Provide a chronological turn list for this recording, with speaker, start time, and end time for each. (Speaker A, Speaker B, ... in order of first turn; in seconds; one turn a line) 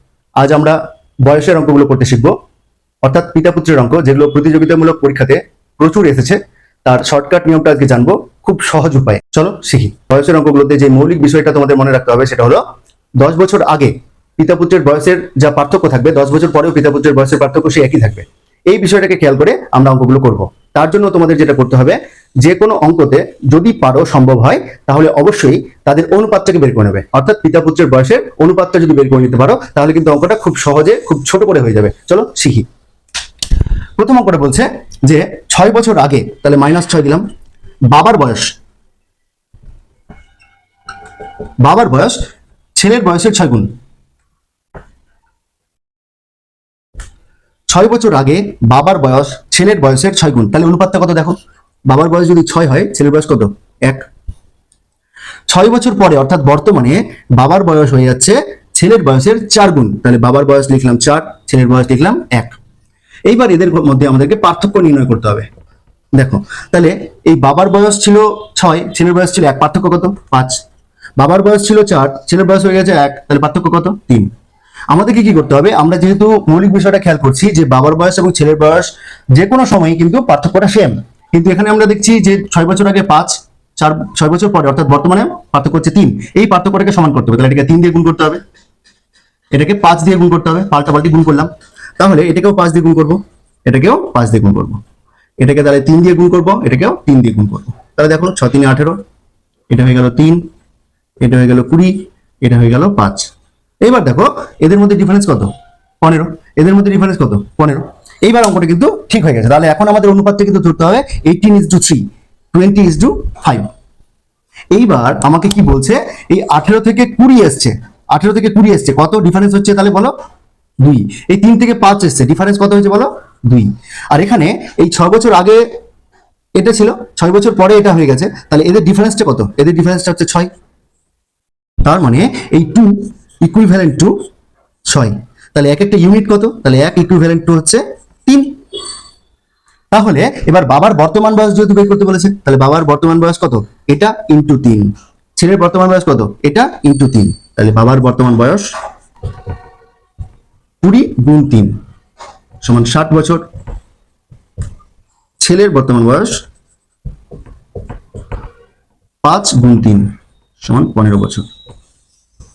Speaker A: 0.4-2.3
Speaker A: 3.0-12.6
Speaker A: 13.2-32.7
Speaker A: 34.0-37.2
Speaker A: 37.9-38.5
Speaker A: 41.6-42.2
Speaker A: 42.7-43.7
Speaker A: 47.7-51.4
Speaker A: 51.9-54.0
Speaker A: 55.5-62.6
Speaker A: 63.3-65.5
Speaker A: 66.1-70.6
Speaker A: 71.2-74.3
Speaker A: 74.9-88.4
Speaker A: 89.5-94.8
Speaker A: 95.4-99.0
Speaker A: 99.7-100.4
Speaker A: 101.2-103.3
Speaker A: 103.8-113.7
Speaker A: 114.7-120.1
Speaker A: 120.8-125.6
Speaker A: 126.5-130.5
Speaker A: 131.8-134.2
Speaker A: 134.9-138.6
Speaker A: 139.9-148.7
Speaker A: 150.8-151.8
Speaker A: 152.6-153.4
Speaker A: 155.4-156.4
Speaker A: 159.2-161.5